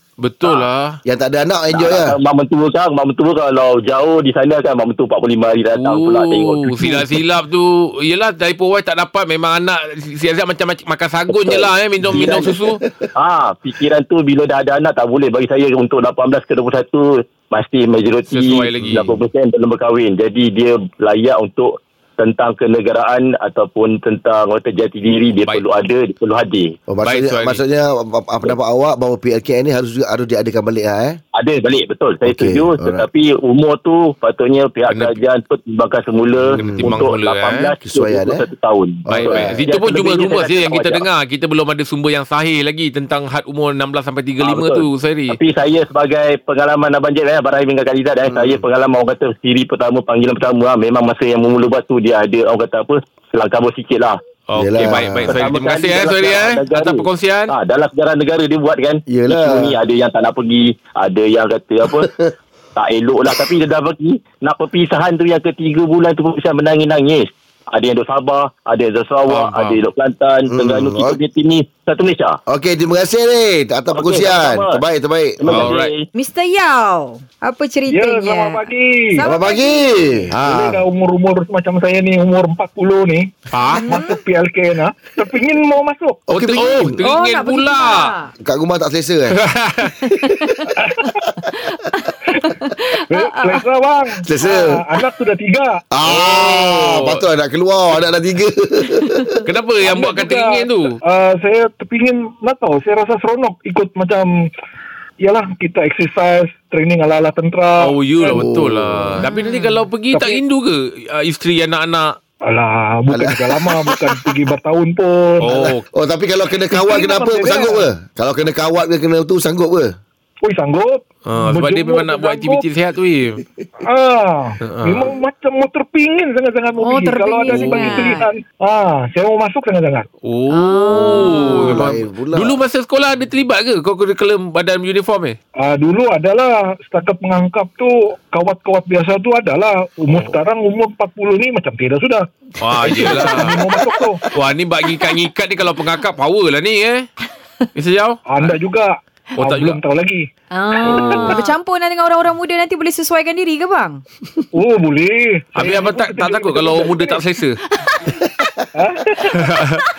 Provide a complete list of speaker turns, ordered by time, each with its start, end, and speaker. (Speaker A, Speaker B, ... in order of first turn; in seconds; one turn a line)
Speaker A: 0.2-1.0
Speaker B: 1.1-2.1
Speaker C: 1.7-7.0
Speaker A: 5.8-12.8
Speaker C: 11.3-12.6
Speaker B: 12.0-13.1
Speaker C: 13.2-26.8
Speaker A: 18.3-19.2
Speaker B: 26.9-31.2
Speaker A: 27.1-27.6
Speaker C: 31.4-41.0
Speaker B: 32.2-33.1
Speaker A: 34.9-35.2
Speaker B: 36.5-37.0
Speaker A: 36.5-37.7
Speaker B: 37.8-38.4
Speaker B: 39.1-39.6
Speaker A: 39.1-45.4
Speaker C: 44.4-54.2
Speaker B: 48.3-48.6
Speaker A: 54.5-57.5
Speaker B: 54.6-55.4
Speaker C: 55.3-62.1
Speaker B: 59.1-59.7
Speaker B: 61.9-62.3
Speaker C: 62.8-72.4
Speaker A: 69.3-69.8
Speaker B: 70.5-71.2
Speaker B: 72.5-75.7
Speaker C: 73.9-74.8
Speaker C: 75.4-76.1
Speaker A: 75.5-75.9
Speaker D: 76.2-80.2
Speaker E: 77.9-79.2
Speaker B: 79.2-80.8
Speaker E: 80.4-86.2
Speaker A: 83.5-84.0
Speaker D: 83.7-84.2
Speaker B: 86.3-87.0
Speaker A: 86.3-88.1
Speaker D: 87.0-88.3
Speaker B: 88.4-89.4
Speaker A: 89.4-90.0
Speaker D: 90.1-90.7
Speaker B: 90.2-90.7
Speaker E: 90.8-91.2
Speaker D: 91.6-93.6
Speaker E: 92.4-95.8
Speaker B: 94.3-94.8
Speaker B: 95.9-99.4
Speaker A: 96.0-97.2
Speaker D: 99.0-99.4
Speaker A: 99.5-101.0
Speaker E: 99.8-104.3
Speaker E: 105.2-108.5
Speaker A: 107.8-112.2
Speaker B: 108.3-109.2
Speaker D: 109.2-109.8
Speaker E: 110.1-110.4
Speaker E: 112.5-115.7
Speaker B: 113.1-114.0
Speaker A: 115.4-115.8
Speaker B: 115.5-119.9
Speaker E: 116.7-117.9
Speaker E: 120.4-122.6
Speaker A: 121.3-123.4
Speaker E: 123.8-130.1
Speaker A: 124.7-125.1
Speaker D: 126.8-128.3
Speaker A: 130.2-135.4
Speaker D: 130.5-131.8
Speaker B: 131.0-132.6
Speaker E: 135.6-144.2
Speaker A: 142.6-143.7
Speaker A: 144.3-147.1
Speaker A: 147.8-148.6
Speaker E: 148.3-151.5
Speaker A: 149.4-149.8
Speaker D: 150.5-154.0
Speaker A: 150.9-151.4
Speaker E: 154.5-157.2
Speaker A: 155.6-157.6
Speaker B: 158.2-158.7
Speaker E: 158.8-159.4
Speaker A: 159.3-159.8